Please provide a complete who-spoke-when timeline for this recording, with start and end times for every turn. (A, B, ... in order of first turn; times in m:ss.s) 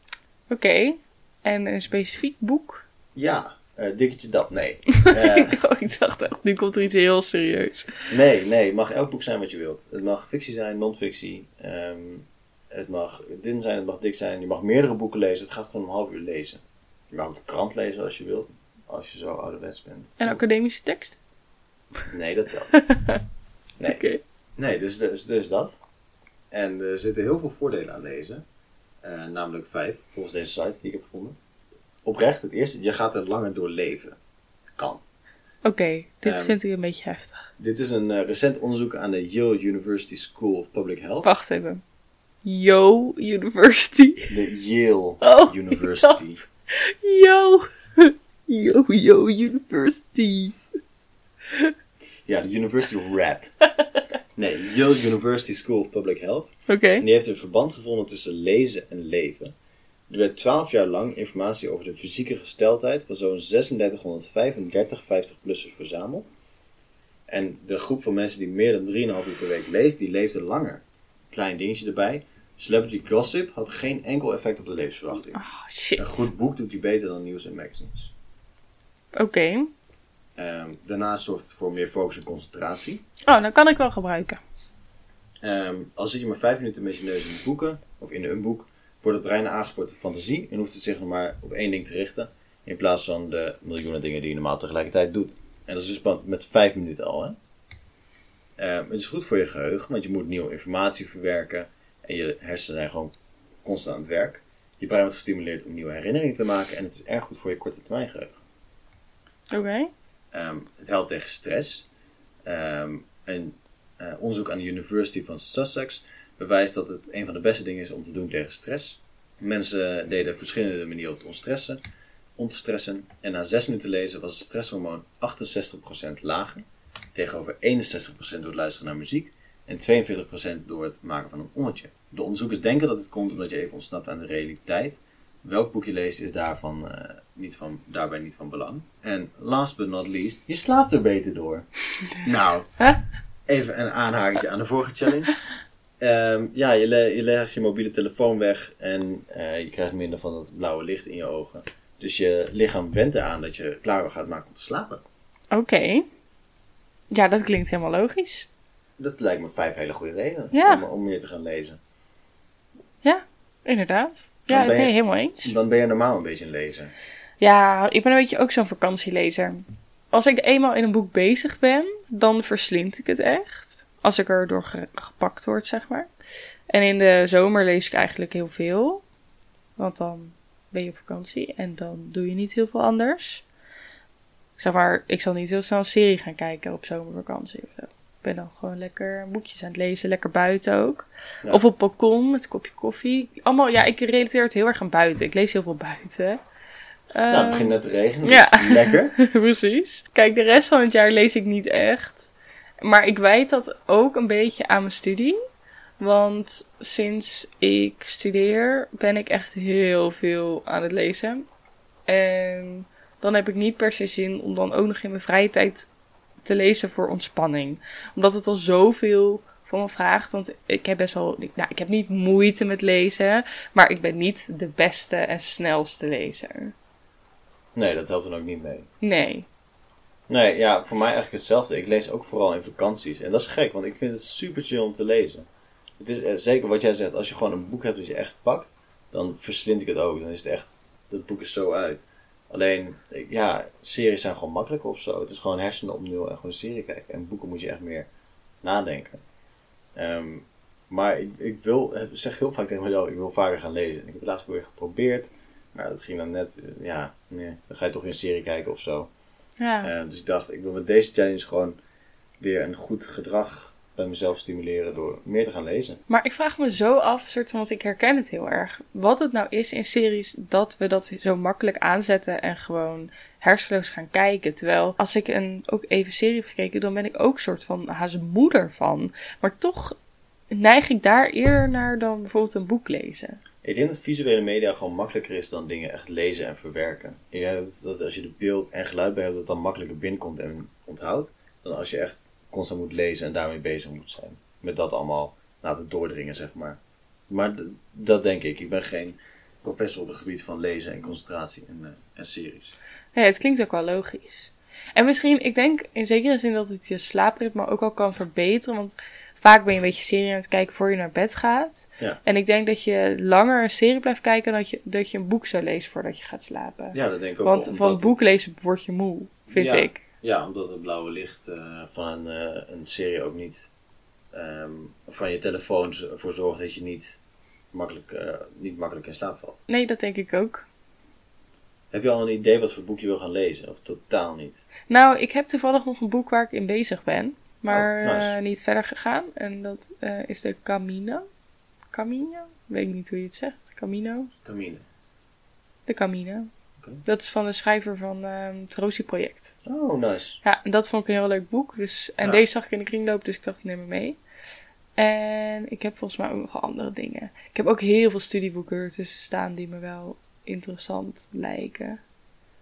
0:00.5-0:02.8 A
0:03.1-0:05.6 B
0:05.0-0:07.9 A
0:08.1-0:20.4 B
0:20.2-0:21.2 A
0:22.1-0:22.8 B
0:22.8-0:23.2 A
0:23.8-0:24.2 A
0:24.6-0:25.8 B
0:26.5-0:28.4 B
0:29.0-0:31.4 B
0:32.0-0:34.2 B
0:34.8-0:35.0 B
0:35.6-0:37.4 A
0:36.2-0:36.6 B
0:37.6-0:41.3 B
0:41.2-0:41.8 A
0:42.4-0:44.3 A
0:44.3-0:46.4 B
0:45.2-0:46.2 A
0:46.7-0:50.6 A
0:52.2-0:53.5 B
0:54.4-0:59.5 B
0:56.7-0:57.0 A
1:00.1-1:06.3 B
1:07.3-1:15.4 B
1:15.3-1:16.3 A
1:16.0-1:18.1 B
1:19.1-1:19.7 A
1:20.4-1:23.0 B
1:23.2-1:24.4 A
1:25.4-1:37.3 B
1:38.6-1:43.1 B
1:43.6-1:48.4 B
1:49.5-1:49.9 A
1:50.3-1:51.9 B
1:52.4-2:01.8 B
2:02.4-2:06.6 B
2:07.1-2:21.7 B
2:22.2-2:22.7 B
2:23.5-2:25.3 B
2:26.0-2:35.0 B
2:35.5-2:36.0 A
2:37.1-2:38.5 A
2:39.0-2:41.8 B
2:40.5-2:40.8 A
2:43.0-2:45.5 A
2:44.5-2:46.9 B
2:47.4-2:56.1 A
2:56.7-2:59.0 A
2:59.8-3:03.4 A
3:04.6-3:16.4 A
3:17.1-3:17.7 A
3:17.3-3:19.1 B
3:18.2-3:25.4 A
3:26.0-3:31.4 A
3:32.1-3:35.9 A
3:36.4-3:46.7 A
3:47.8-3:48.9 B
3:49.0-3:49.5 A
3:50.3-3:55.4 B
3:56.0-4:08.1 B
4:08.6-4:09.2 B
4:10.0-4:19.1 B
4:19.6-4:19.9 A
4:19.8-4:21.8 B
4:22.4-4:26.0 B
4:26.1-4:40.0 A
4:40.5-4:43.4 A
4:43.6-5:02.7 B
5:03.1-5:20.0 A
5:16.9-5:18.1 B
5:19.5-5:23.7 B
5:24.3-5:27.2 B
5:27.7-5:29.6 B
5:29.7-5:30.6 A
5:31.9-5:34.6 B
5:34.9-5:41.2 A
5:37.7-5:38.3 B
5:41.9-5:44.3 A
5:44.4-5:44.8 B
5:45.9-5:46.5 A
5:47.0-5:49.5 A
5:49.6-5:50.4 B
5:50.4-5:54.2 A
5:55.0-6:02.0 A